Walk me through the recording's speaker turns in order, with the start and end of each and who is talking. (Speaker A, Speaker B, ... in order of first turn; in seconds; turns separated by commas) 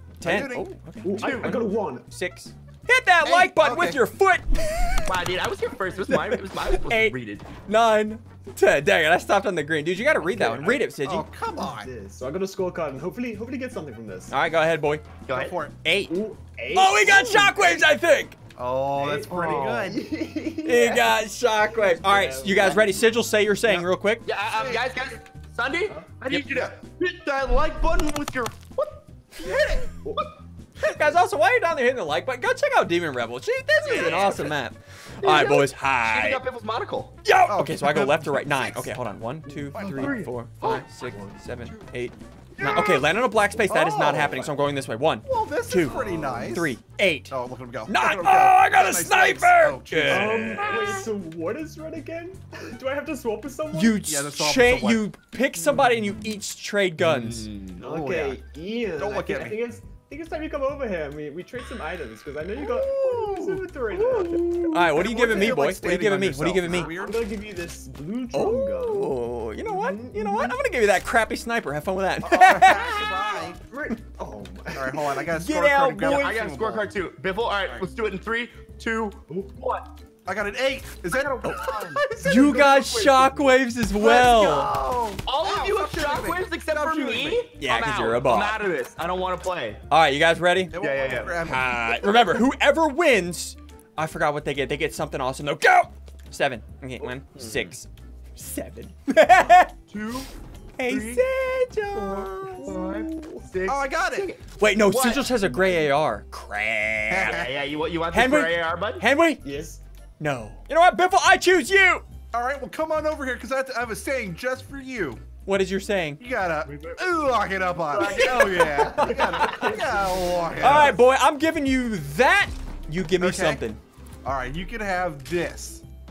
Speaker A: 0.2-5.1, Speaker B: 0.2-0.7, Speaker C: 1.0-2.1, Speaker D: 1.2-1.6, Speaker B: 3.2-4.0, Speaker D: 5.0-7.5, Speaker A: 6.1-11.3, Speaker C: 10.2-10.8, Speaker B: 11.0-11.9, Speaker C: 11.6-14.3, Speaker A: 14.3-15.1, Speaker D: 15.2-15.5, Speaker B: 15.3-15.7, Speaker A: 15.8-16.1, Speaker C: 16.1-17.8, Speaker A: 16.7-18.4, Speaker B: 18.6-20.0, Speaker C: 19.0-21.1, Speaker D: 19.3-19.9, Speaker A: 20.6-24.2, Speaker C: 21.8-23.0, Speaker B: 23.6-23.9, Speaker D: 24.2-29.0, Speaker B: 24.5-24.8, Speaker B: 26.3-26.7, Speaker B: 29.4-29.9, Speaker A: 30.8-36.4, Speaker D: 33.8-34.6, Speaker D: 35.2-37.1, Speaker A: 37.2-47.3, Speaker B: 37.5-39.0, Speaker C: 39.5-41.4, Speaker B: 39.7-40.1, Speaker D: 39.8-40.8, Speaker B: 42.5-44.5, Speaker B: 45.2-46.7, Speaker D: 45.9-46.4, Speaker B: 47.3-50.7, Speaker A: 47.9-51.0, Speaker C: 50.1-54.0, Speaker D: 50.6-51.0, Speaker A: 53.7-57.5, Speaker B: 54.0-55.1, Speaker D: 57.0-57.8, Speaker B: 57.8-58.4, Speaker C: 57.8-65.7, Speaker B: 59.0-59.6, Speaker B: 62.6-67.3, Speaker D: 64.0-64.3, Speaker A: 64.7-66.9, Speaker C: 66.7-70.6, Speaker A: 68.3-73.5, Speaker B: 72.2-73.6, Speaker C: 73.7-75.1, Speaker B: 74.7-76.9, Speaker A: 75.3-76.3, Speaker D: 76.0-79.9, Speaker B: 80.2-82.8, Speaker D: 81.1-82.0, Speaker C: 82.2-83.5, Speaker A: 82.2-84.7, Speaker B: 84.0-87.5, Speaker D: 85.2-89.8, Speaker A: 87.6-88.6, Speaker A: 89.9-90.7, Speaker B: 90.7-92.0, Speaker D: 90.8-91.4, Speaker A: 91.4-99.7, Speaker D: 97.0-97.7, Speaker D: 99.9-100.3, Speaker A: 100.8-102.7, Speaker D: 100.9-101.2, Speaker D: 101.9-105.5, Speaker C: 102.5-103.4, Speaker B: 103.7-104.3, Speaker A: 104.6-107.5, Speaker B: 107.1-107.5, Speaker D: 107.2-109.0, Speaker A: 108.1-109.4, Speaker C: 109.4-109.8, Speaker A: 110.2-112.0, Speaker B: 112.3-115.2, Speaker A: 115.4-116.2, Speaker B: 116.2-121.0, Speaker D: 116.7-117.0, Speaker D: 117.9-118.7, Speaker A: 118.1-119.5, Speaker C: 118.8-120.9, Speaker A: 120.6-123.8, Speaker B: 123.2-123.6, Speaker B: 124.2-125.8